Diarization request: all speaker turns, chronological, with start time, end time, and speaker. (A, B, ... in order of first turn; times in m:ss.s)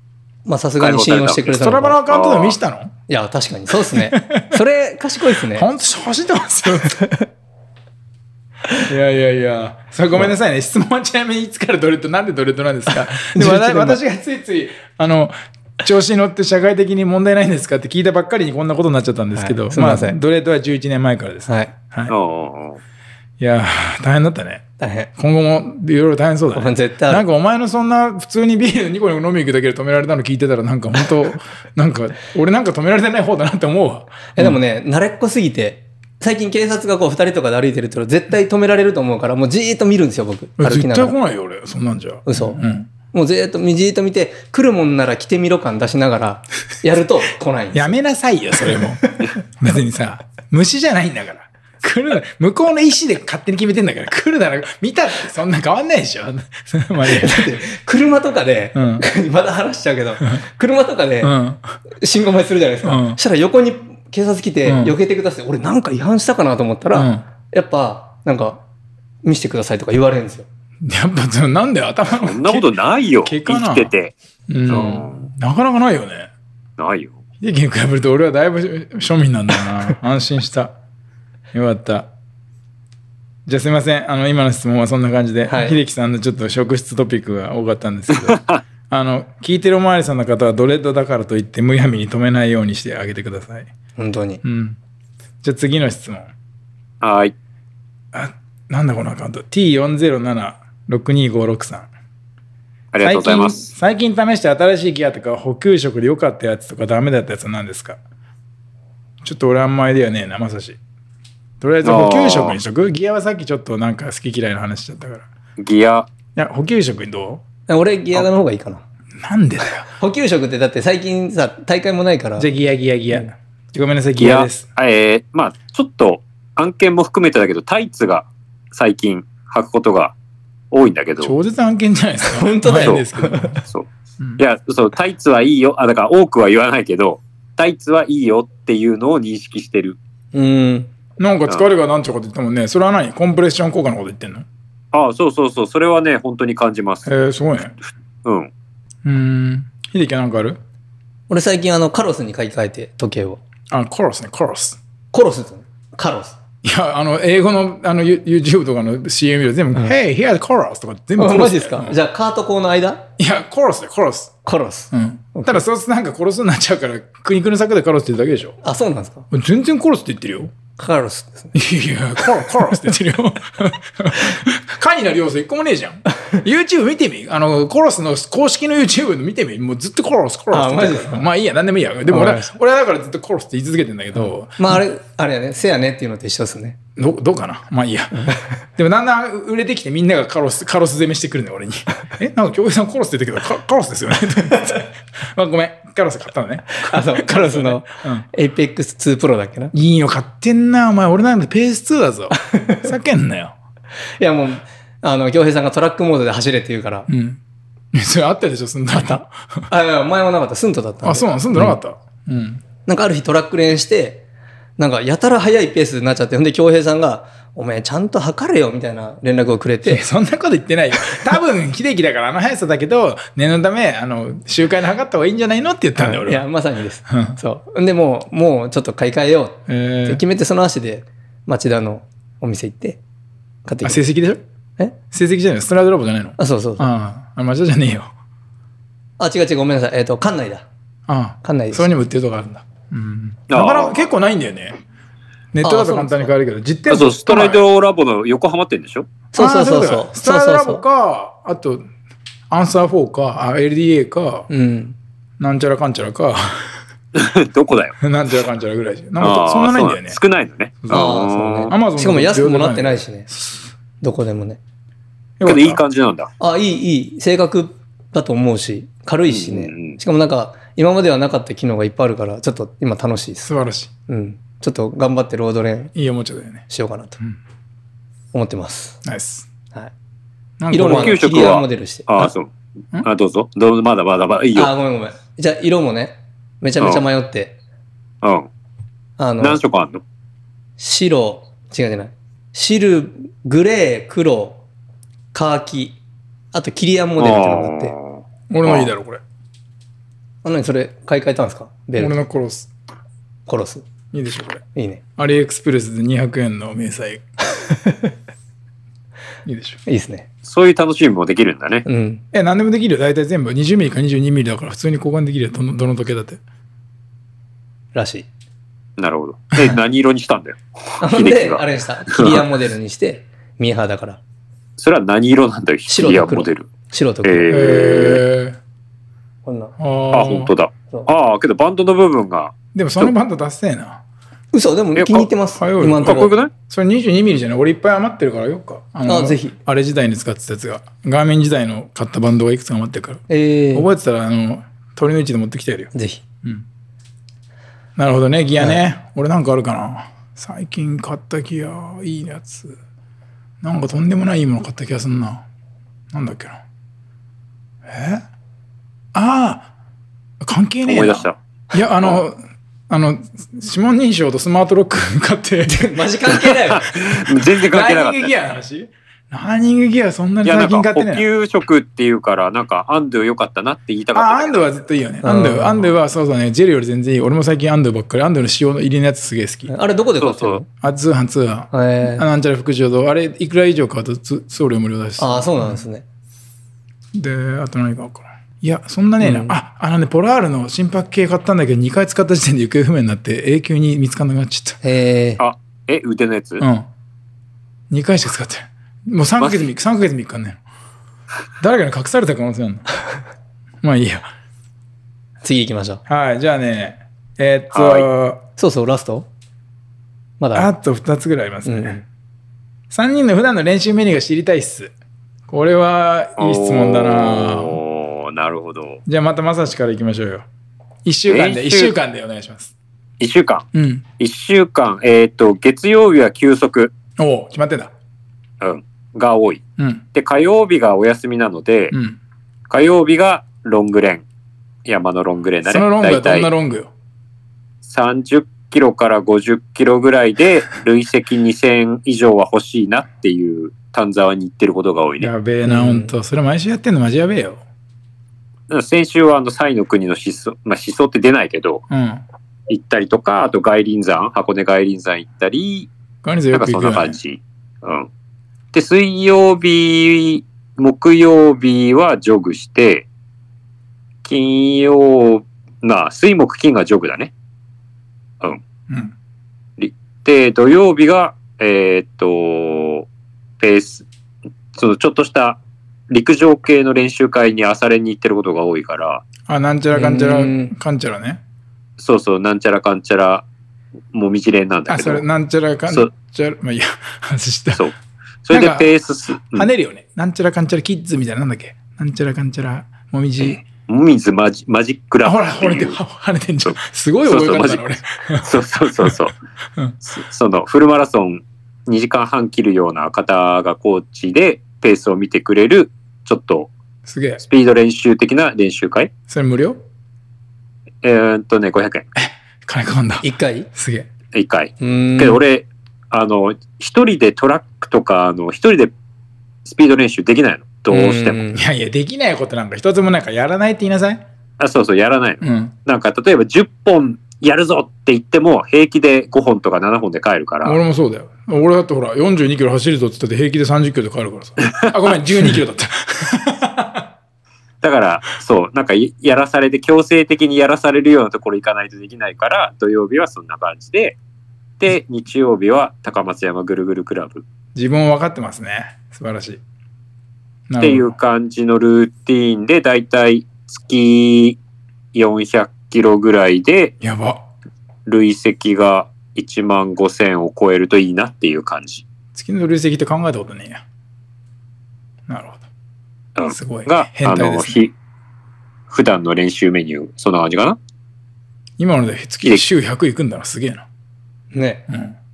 0:00.5-0:02.0 A
0:00.8-0:01.6 B
0:01.6-0:02.9 C
0:02.1-0:02.6 B
0:03.1-0:05.7 A
0:03.9-0:04.6 C
0:05.5-0:07.0 C
0:06.9-0:07.3 A
0:08.8-0:22.2 C
0:12.9-0:14.0 A
0:19.4-0:20.2 A
0:21.5-0:21.7 A
0:22.1-0:22.8 B
0:23.4-0:24.6 C
0:24.8-0:25.1 A
0:25.2-0:34.6 C
0:26.5-0:27.2 A
0:34.4-0:41.2 A
0:40.6-0:42.9 C
0:42.3-0:42.6 A
0:43.1-0:48.0 A
0:47.7-0:57.6 C
0:48.6-0:49.4 A
0:57.0-1:01.4 A
0:58.8-0:59.0 C
1:01.2-1:01.8 C
1:01.9-1:08.6 A
1:02.8-1:03.2 C
1:04.6-1:05.0 C
1:06.9-1:07.2 C
1:09.2-1:10.5 A
1:10.8-1:12.7 C
1:12.1-1:14.1 B
1:13.2-1:13.9 C
1:14.5-1:16.3 C
1:14.7-1:15.3 B
1:16.8-1:17.2 B
1:17.4-1:20.8 C
1:21.5-1:22.1 C
1:23.5-1:33.7 C
1:25.4-1:25.8 A
1:28.3-1:28.6 B
1:34.0-1:34.4 A
1:34.4-1:34.8 C
1:35.4-1:36.3 C
1:37.0-1:37.4 B
1:38.1-1:41.9 C
1:42.9-1:43.7 B
1:43.0-1:48.0 C
1:49.2-1:50.8 C
1:51.6-1:55.3 C
1:51.8-1:52.6 B
1:55.6-1:56.1 B
1:56.4-1:57.4 C
1:57.7-1:58.8 A
1:59.2-1:59.9 C
1:59.9-2:02.5 A
2:02.4-2:04.6 C
2:04.2-2:10.1 B
2:10.7-2:11.3 B
2:11.2-2:13.6 C
2:12.2-2:13.6 A
2:13.7-2:20.0 B
2:20.3-2:20.9 A
2:21.2-2:24.5 C
2:24.9-2:27.1 B
2:27.1-2:27.8 C
2:28.2-2:28.5 B
2:29.0-2:30.6 C
2:31.3-2:33.4 A
2:33.7-2:34.8 C
2:35.1-2:36.4 A
2:36.6-2:42.0 C
2:41.2-2:43.0 A
2:43.2-2:44.3 C
2:44.4-2:45.6 A
2:44.9-2:48.6 C
2:48.6-2:49.3 A
2:49.3-2:50.5 C
2:50.8-2:51.6 A
2:51.5-3:04.8 C
3:00.5-3:01.3 A
3:02.1-3:02.5 A
3:04.2-3:06.8 A
3:07.0-3:08.2 C
3:08.1-3:08.6 A
3:08.8-3:18.3 C
3:16.7-3:19.7 A
3:19.7-3:23.6 C
3:22.4-3:22.8 A
3:24.2-3:27.1 A
3:27.1-3:27.4 C
3:27.9-3:29.6 C
3:28.9-3:31.8 A
3:31.0-3:32.6 C
3:32.8-3:34.2 A
3:34.8-3:40.1 A
3:39.8-3:46.4 C
3:46.0-3:53.0 A
3:47.1-3:47.4 C
3:49.7-3:50.2 C
3:53.6-3:54.0 A
3:53.8-3:54.4 C
3:55.1-3:58.1 C
3:56.4-3:56.9 A
3:59.2-4:00.7 A
4:01.1-4:04.8 C
4:01.4-4:01.9 A
4:03.5-4:04.1 B
4:05.5-4:07.7 C
4:05.6-4:06.3 A
4:06.9-4:09.1 B
4:09.3-4:10.8 A
4:09.4-4:11.9 C
4:12.5-4:14.5 C
4:14.5-4:15.0 A
4:15.4-4:16.8 C
4:17.2-4:18.0 B
4:18.0-4:20.2 C
4:19.2-4:21.7 B
4:20.8-4:21.2 C
4:20.9-4:23.3 A
4:21.7-4:23.7 C
4:24.0-4:24.6 A
4:25.4-4:25.8 C
4:25.4-4:26.3 B
4:26.4-4:33.5 A
4:29.3-4:30.0 B
4:33.4-4:33.9 C
4:34.1-4:35.9 A
4:36.0-4:36.7 C
4:36.7-4:37.2 A
4:38.3-4:39.0 A
4:39.0-4:39.5 C
4:40.6-4:41.2 C
4:40.7-4:42.3 A
4:40.8-4:44.7 B
4:44.6-4:47.6 A
4:48.2-4:48.5 B
4:49.2-4:49.6 A
4:49.4-4:50.0 B
4:50.8-4:54.6 A
4:55.3-4:56.0 A
4:56.5-4:57.9 A
4:57.2-4:58.9 B
4:58.5-4:59.2 C
5:00.4-5:02.2 A
5:02.0-5:02.7 C
5:03.5-5:03.9 A
5:04.1-5:04.6 C
5:04.8-5:05.0 A
5:05.2-5:07.2 C
5:07.5-5:08.2 A
5:09.5-5:09.8 C
5:09.9-5:10.3 A
5:10.4-5:11.8 B
5:11.8-5:12.2 A
5:12.3-5:16.4 C
5:18.0-5:18.3 A
5:19.0-5:22.5 B
5:21.0-5:24.2 A
5:24.8-5:26.7 B
5:25.9-5:27.6 A
5:27.2-5:28.2 B
5:27.5-5:28.6 C
5:29.4-5:29.8 A
5:29.8-5:30.5 C
5:30.1-5:33.1 B
5:32.8-5:34.0 C
5:34.5-5:36.4 A
5:35.0-5:35.3 B
5:35.6-5:45.9 C
5:36.0-5:36.5 B
5:39.1-5:39.6 A
5:43.3-5:43.9 A
5:45.9-5:46.2 A
5:48.0-5:52.8 C
5:53.6-5:55.4 C
5:56.1-5:56.6 C
5:57.9-5:58.2 C
5:59.1-5:59.7 C
6:00.4-6:02.4 C
6:00.9-6:01.4 B
6:02.9-6:06.0 C
6:05.7-6:07.0 A
6:06.5-6:08.3 B
6:07.6-6:11.2 C
6:10.4-6:14.7 B
6:14.1-6:19.7 C
6:15.2-6:15.9 A
6:19.7-6:20.7 A
6:20.2-6:20.6 B
6:20.8-6:25.8 C
6:21.7-6:22.2 A
6:25.2-6:26.0 A
6:27.1-6:34.8 C
6:29.2-6:29.6 A
6:34.8-6:35.4 A
6:35.4-6:36.6 B
6:36.6-6:36.9 C
6:37.9-6:40.6 C
6:39.4-6:39.7 B
6:41.6-6:42.9 C
6:43.8-6:44.3 C
6:45.4-6:46.0 A
6:46.1-6:48.4 C
6:47.7-6:48.1 B
6:48.6-6:49.3 A
6:50.4-6:50.7 A
6:50.6-6:52.0 C
6:51.6-6:52.0 A
6:52.9-6:54.9 C
6:55.5-6:57.8 C
6:56.4-6:59.0 B
6:59.1-7:00.5 C
7:01.0-7:02.7 C
7:01.3-7:01.9 B
7:03.2-7:03.7 B
7:03.7-7:04.0 C
7:04.2-7:06.9 B
7:07.2-7:07.9 C
7:08.6-7:09.6 B
7:09.8-7:10.0 C
7:10.1-7:12.0 B
7:11.9-7:12.2 C
7:12.7-7:14.2 B
7:14.8-7:16.5 B
7:15.6-7:16.9 C
7:17.8-7:25.3 B
7:25.2-7:27.6 C
7:25.6-7:26.1 A
7:28.7-7:31.8 B
7:31.9-7:32.2 C
7:32.7-7:35.9 B
7:36.2-7:37.2 C
7:36.5-7:38.1 B
7:38.7-7:43.1 B
7:44.2-7:47.3 B
7:49.8-7:53.1 B
7:53.6-7:54.0 B
7:54.8-7:59.2 B
7:59.5-8:01.4 C
7:59.9-8:00.7 A
8:02.0-8:03.4 B
8:04.1-8:05.2 B
8:04.9-8:07.8 C
8:08.4-8:09.7 B
8:08.5-8:08.9 C
8:09.5-8:13.6 C
8:13.4-8:16.0 B
8:15.2-8:19.2 C
8:17.3-8:19.4 B
8:20.0-8:26.7 B
8:27.1-8:27.4 C
8:27.4-8:29.1 B
8:29.3-8:29.8 C
8:31.0-8:32.1 B
8:32.2-8:34.1 C
8:33.2-8:33.7 A
8:34.3-8:38.9 B
8:34.8-8:35.4 A
8:39.6-8:41.4 B
8:40.9-8:41.6 A
8:41.6-8:44.2 C
8:44.6-8:50.8 B
8:45.4-8:45.8 C
8:50.6-8:57.1 C
8:54.6-8:54.9 B
8:57.8-9:04.2 B
9:04.8-9:07.4 B
9:07.8-9:09.6 C
9:10.7-9:11.2 C
9:10.8-9:14.6 B
9:15.1-9:16.9 B
9:17.0-9:17.4 C
9:18.1-9:22.0 B
9:22.4-9:23.8 C
9:25.3-9:25.6 C
9:26.4-9:27.9 B
9:26.5-9:27.8 C
9:28.9-9:30.8 B
9:31.8-9:33.8 C
9:34.5-9:34.8 A
9:34.9-9:35.2 C